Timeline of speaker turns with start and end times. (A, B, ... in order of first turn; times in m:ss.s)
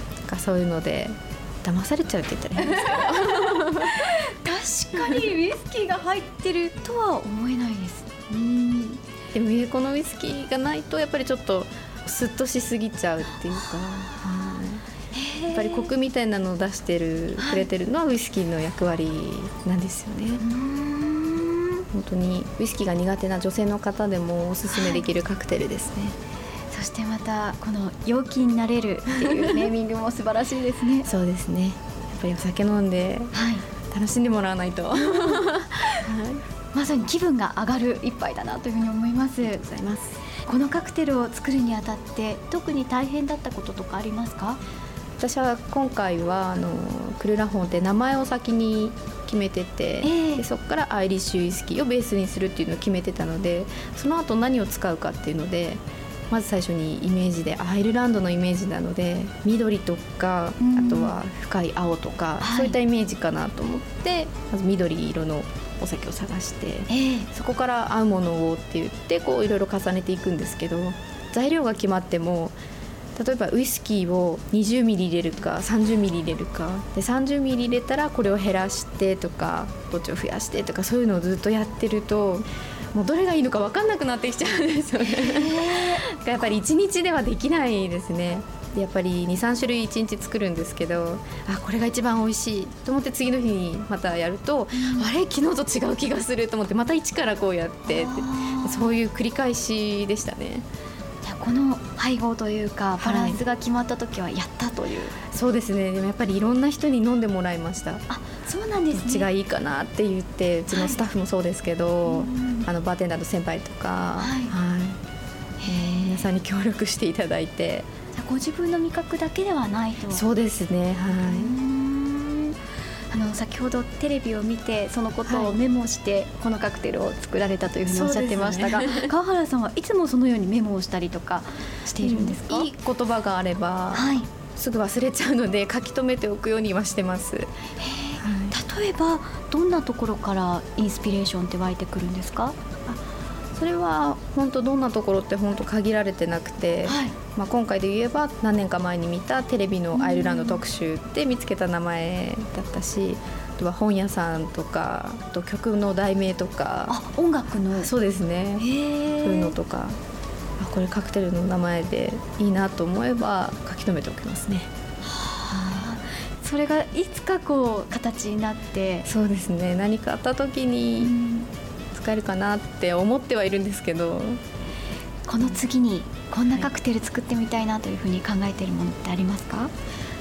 0:00.3-0:04.0 A
0:02.6-0:08.1 B
0:05.0-0:05.2 A
0:08.3-0:14.8 A
0:15.1-0:15.9 B
0:15.5-0:20.4 A
0:17.4-0:17.7 B
0:20.4-0:21.8 B
0:21.9-0:26.2 A
0:24.7-0:25.1 B
0:26.7-0:31.1 B
0:31.0-0:33.3 A
0:33.3-0:33.6 B
0:33.9-0:36.4 A
0:35.0-0:35.4 B
0:36.7-0:39.6 B
0:39.4-0:40.2 A
0:40.4-0:44.6 B
0:45.2-1:12.6 A
0:50.0-0:50.4 B
1:00.6-1:01.2 B
1:02.4-1:02.8 B
1:06.9-1:07.3 B
1:13.2-1:40.6 A
1:25.0-1:26.0 B
1:34.7-1:35.1 B
1:37.9-1:38.9 B
1:41.2-1:45.2 B
1:43.0-1:43.4 A
1:45.3-1:48.0 A
1:48.1-1:49.3 B
1:48.9-1:55.0 A
1:50.7-1:51.0 B
1:52.1-1:52.7 B
1:54.2-1:54.6 B
1:55.6-1:56.3 B
1:55.7-1:57.9 A
1:58.1-2:00.2 B
2:00.1-2:01.6 A
2:01.1-2:02.6 B
2:03.1-2:12.7 B
2:05.3-2:05.6 A
2:07.8-2:09.1 A
2:12.0-2:17.5 A
2:13.9-2:14.3 B
2:17.8-2:22.6 B
2:18.2-2:18.6 A
2:23.6-2:37.0 A
2:26.9-2:27.2 B
2:29.9-2:30.6 B
2:36.9-2:37.9 B
2:37.7-2:38.7 A
2:38.6-2:39.6 B
2:39.2-2:40.0 A
2:40.6-2:44.7 A
2:45.1-2:49.1 B
2:45.5-2:45.9 A
2:49.1-2:51.2 A
2:51.0-2:51.5 B
2:51.9-2:54.4 A
2:55.3-2:59.7 B